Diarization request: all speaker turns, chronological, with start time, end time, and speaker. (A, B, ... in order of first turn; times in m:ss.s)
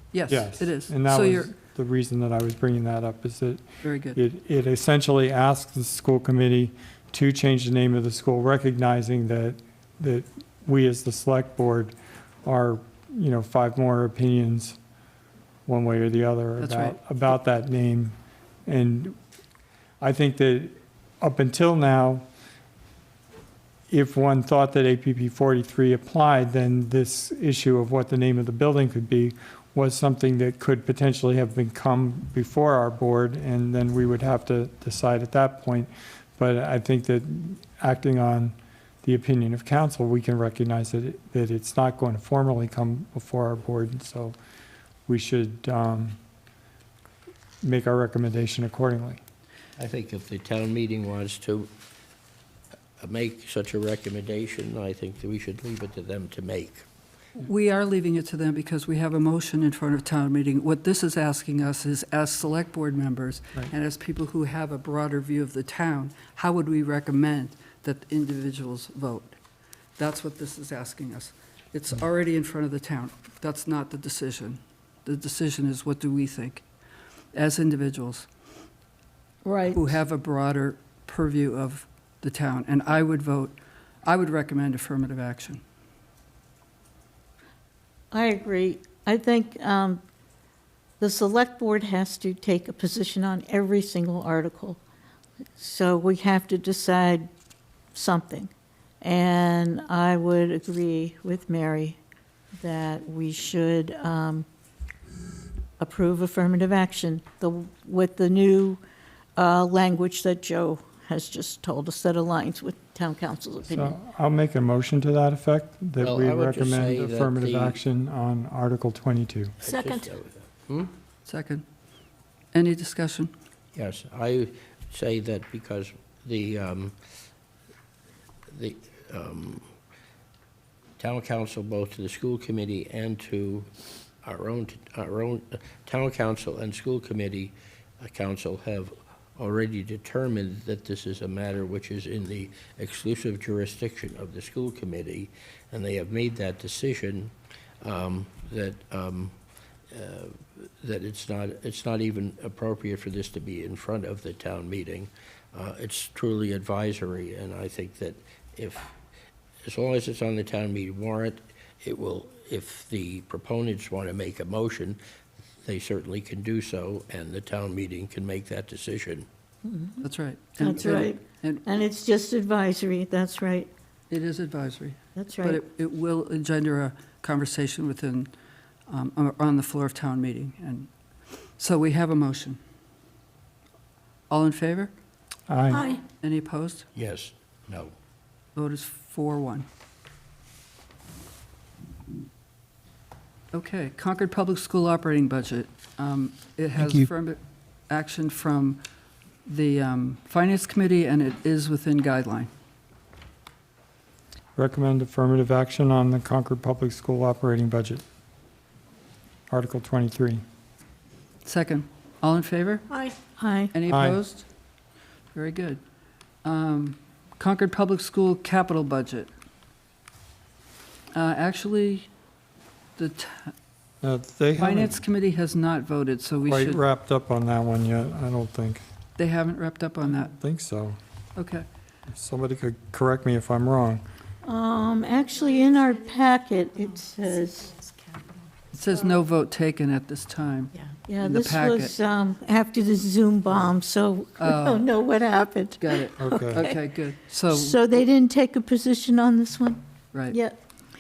0:00.1-0:01.5 A
0:00.3-0:03.6 B
0:03.8-0:04.2 A
0:04.2-0:14.8 B
0:15.7-0:18.2 B
0:16.6-0:17.0 A
0:18.7-0:19.2 B
0:20.0-0:22.2 B
0:23.9-0:44.4 B
0:45.1-0:46.2 B
0:47.6-0:49.2 B
0:49.8-0:51.7 C
0:53.0-0:56.8 C
0:57.4-1:09.4 A
1:10.0-1:16.6 A
1:17.3-1:18.3 A
1:19.4-1:20.0 D
1:19.7-1:25.6 A
1:28.1-1:30.0 D
1:31.0-1:34.8 D
1:35.6-1:37.3 D
1:37.9-1:42.0 D
1:42.6-1:44.5 D
1:45.8-1:48.8 D
1:49.4-1:54.0 D
1:53.6-1:59.6 B
1:56.0-1:57.8 C
1:59.6-2:00.9 C
2:01.3-2:01.6 A
2:02.5-2:03.3 A
2:03.8-2:07.0 C
2:08.5-2:09.6 C
2:11.0-2:13.7 C
2:14.2-2:29.3 C
2:29.9-2:38.9 C
2:39.6-2:45.0 C
2:45.6-2:49.3 C
2:49.6-2:50.0 D
2:50.0-2:51.6 A
2:50.6-2:53.7 D
2:54.1-2:58.3 A
2:55.2-2:55.6 D
2:58.9-3:00.9 A
3:01.6-3:02.6 A
3:04.3-3:04.9 A
3:05.5-3:05.9 B
3:05.7-3:06.0 D
3:06.2-3:06.9 A
3:07.0-3:07.9 C
3:08.6-3:09.7 A
3:13.5-3:17.4 A
3:16.8-3:17.1 B
3:17.9-3:18.8 A
3:19.5-3:22.5 A
3:24.6-3:28.0 B
3:29.5-3:30.4 B
3:31.4-3:32.9 A
3:32.9-3:33.7 D
3:33.7-3:34.5 A
3:33.9-3:34.2 B
3:35.3-3:35.8 A
3:36.4-3:39.3 A
3:41.1-3:42.1 A
3:43.0-3:43.5 A
3:44.0-3:44.9 B
3:44.6-3:46.8 A
3:46.4-3:48.8 B
3:49.2-3:50.3 A
3:50.3-3:51.0 B
3:51.4-3:51.6 A
3:52.1-3:54.0 B
3:54.4-3:57.8 D
3:58.7-4:01.9 A
4:00.9-4:06.8 D
4:04.4-4:04.9 A
4:05.8-4:07.8 A
4:06.2-4:06.6 B
4:07.5-4:10.6 D